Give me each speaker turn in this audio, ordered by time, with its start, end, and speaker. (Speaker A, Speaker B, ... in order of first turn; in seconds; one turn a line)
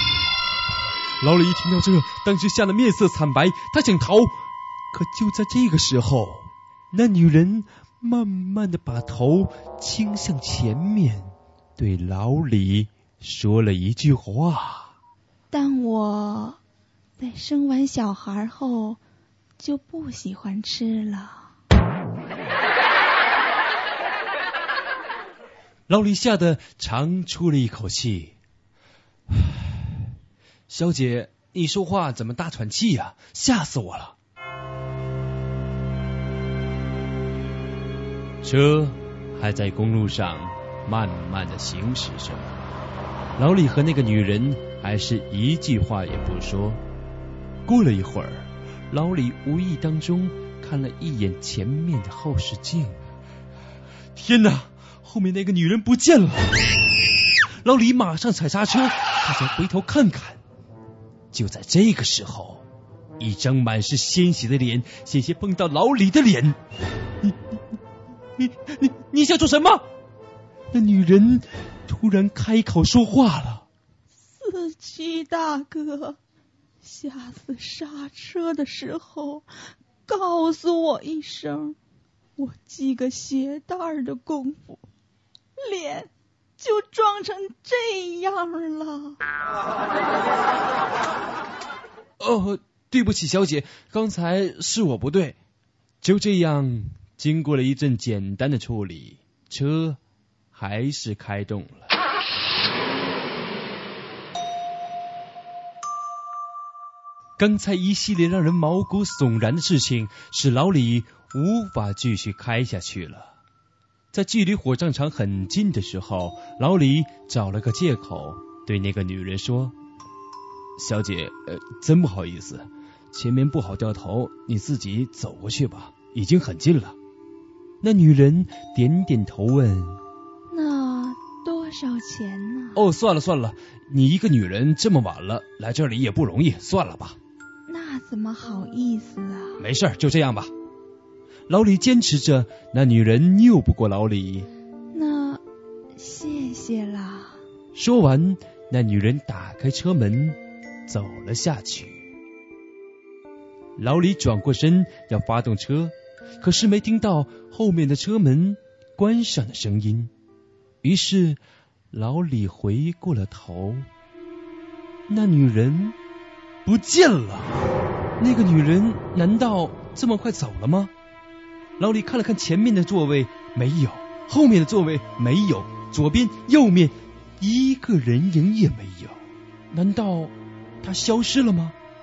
Speaker A: 1.2-4.4
Speaker A: 4.9-14.9
Speaker B: 15.5-16.6
Speaker B: 17.2-19.0
Speaker B: 19.6-21.5
Speaker A: 25.9-28.3
Speaker A: 29.3-29.9
Speaker A: 30.7-34.1
Speaker A: 38.4-42.5
Speaker A: 43.4-46.8
Speaker A: 47.6-53.0
Speaker A: 54.1-56.5
Speaker A: 57.6-60.4
Speaker A: 61.3-62.6
Speaker A: 63.2-66.6
Speaker A: 68.4-69.8
Speaker A: 70.7-73.6
Speaker B: 74.3-76.2
Speaker B: 76.8-79.5
Speaker B: 80.1-81.8
Speaker B: 82.4-84.8
Speaker B: 85.6-89.2
Speaker A: 92.2-95.3
Speaker A: 96.0-100.0
Speaker A: 100.5-101.9
Speaker A: 107.4-113.3
Speaker A: 114.1-119.7
Speaker A: 120.8-127.0
Speaker A: 127.8-130.0
Speaker B: 130.5-132.8
Speaker A: 132.7-137.2
Speaker B: 137.7-139.6
Speaker A: 139.6-140.5
Speaker A: 141.5-144.5
Speaker B: 144.9-145.4
Speaker B: 145.9-147.4
Speaker A: 147.7-152.0
Speaker A: 153.8-160.1
Speaker A: 160.8-161.4
Speaker A: 161.9-163.9
Speaker A: 165.1-165.9
Speaker A: 166.6-167.6
Speaker A: 168.2-170.9
Speaker A: 171.8-179.2
Speaker A: 179.7-181.8